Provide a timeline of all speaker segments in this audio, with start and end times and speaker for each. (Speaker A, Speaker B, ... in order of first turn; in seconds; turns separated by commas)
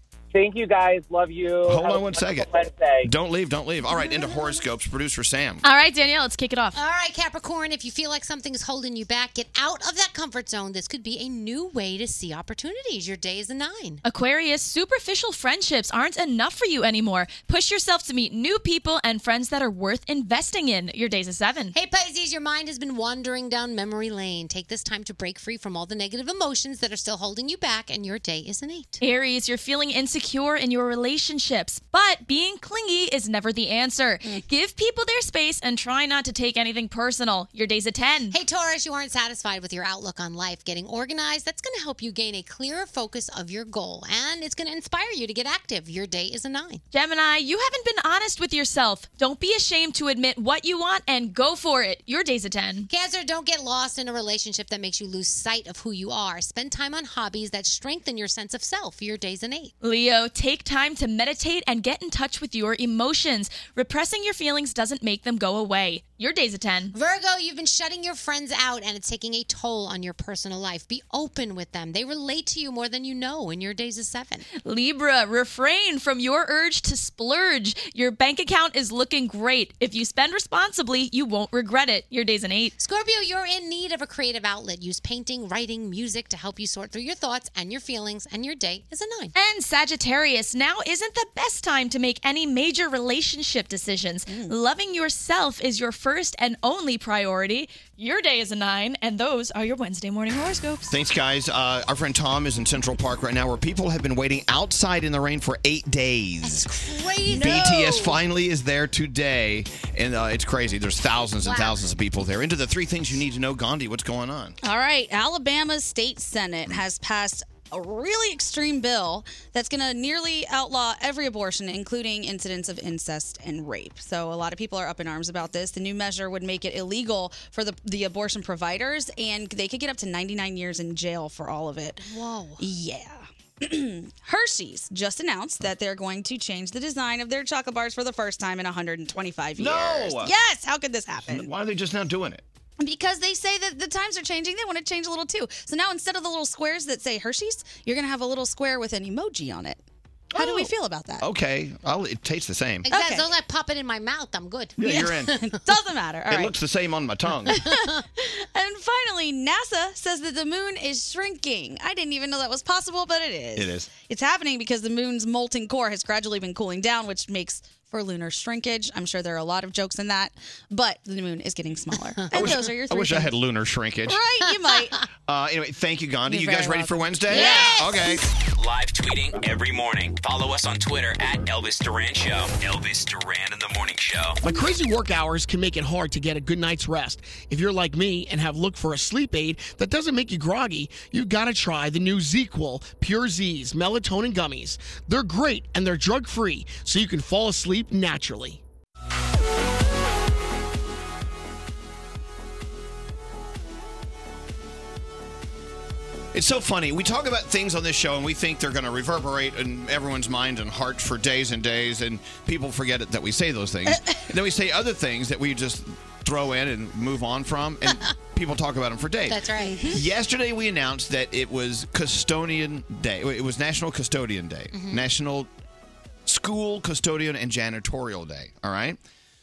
Speaker A: 0.3-3.1, Speaker B: 1.7-2.5, Speaker B: 3.0-5.6, Speaker C: 3.9-4.6, Speaker D: 5.6-6.8, Speaker C: 6.7-14.0, Speaker D: 14.0-21.7, Speaker C: 21.7-29.0, Speaker D: 29.0-38.4, Speaker C: 38.3-46.8, Speaker D: 46.9-52.9, Speaker C: 52.9-59.7, Speaker D: 59.8-66.9, Speaker C: 66.9-74.5, Speaker D: 74.6-82.7, Speaker C: 82.8-89.3, Speaker D: 89.3-100.9, Speaker E: 94.3-94.5, Speaker B: 100.9-106.7, Speaker C: 106.4-108.2, Speaker E: 107.3-107.9, Speaker B: 107.3-114.6, Speaker C: 111.4-111.8, Speaker E: 114.6-132.1, Speaker C: 132.0-132.6, Speaker E: 132.6-141.5, Speaker B: 139.6-140.3, Speaker B: 141.2-142.4, Speaker E: 142.8-149.8, Speaker E: 150.3-151.2, Speaker B: 150.3-152.9, Speaker C: 152.8-155.5, Speaker E: 152.9-153.3, Speaker B: 154.8-155.4, Speaker E: 154.8-156.5, Speaker B: 156.3-157.6, Speaker E: 157.5-173.3, Speaker C: 157.5-158.0, Speaker B: 163.6-163.9, Speaker B: 172.3-174.2, Speaker E: 174.1-175.0, Speaker B: 175.3-178.2, Speaker E: 176.2-178.2, Speaker C: 177.3-177.9, Speaker F: 178.6-184.4, Speaker G: 184.4-198.6, Speaker B: 206.3-225.5, Speaker E: 213.9-214.2, Speaker C: 219.3-220.0, Speaker E: 219.6-220.0, Speaker C: 224.7-225.0, Speaker B: 226.2-229.0